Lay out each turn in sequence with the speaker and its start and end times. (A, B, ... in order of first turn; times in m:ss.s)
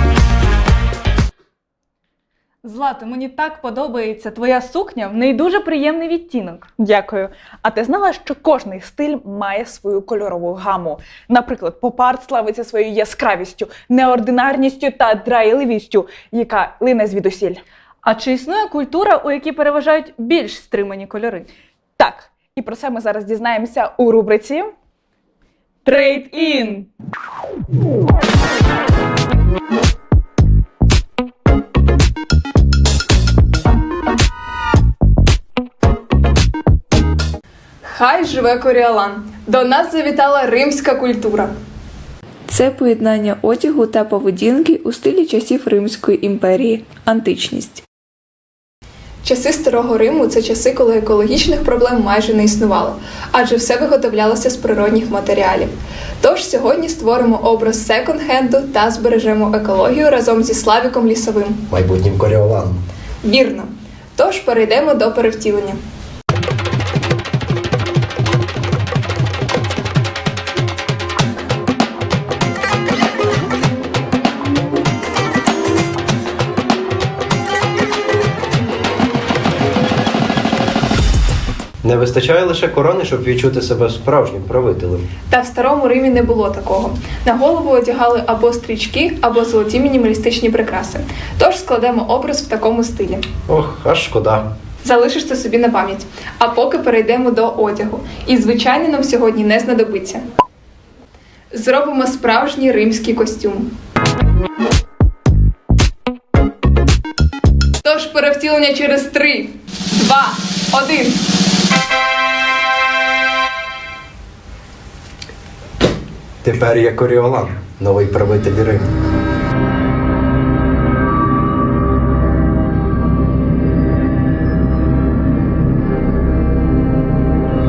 0:02.6-0:06.7 A
0:06.8-0:17.6 B
0:18.0-0:21.5 A
0:22.0-0:24.7 B
0:25.8-0:26.9 B
0:37.8-0:41.5 C
0:42.5-0:47.8 D
0:49.2-1:01.6 C
1:01.7-1:02.8 E
1:03.2-1:05.8 C
1:21.8-1:25.1 E
1:25.3-1:33.3 C
1:33.5-1:34.4 E
1:34.8-1:40.2 C
1:41.5-1:43.7 C
1:47.8-1:51.2 C
1:56.4-1:58.9 E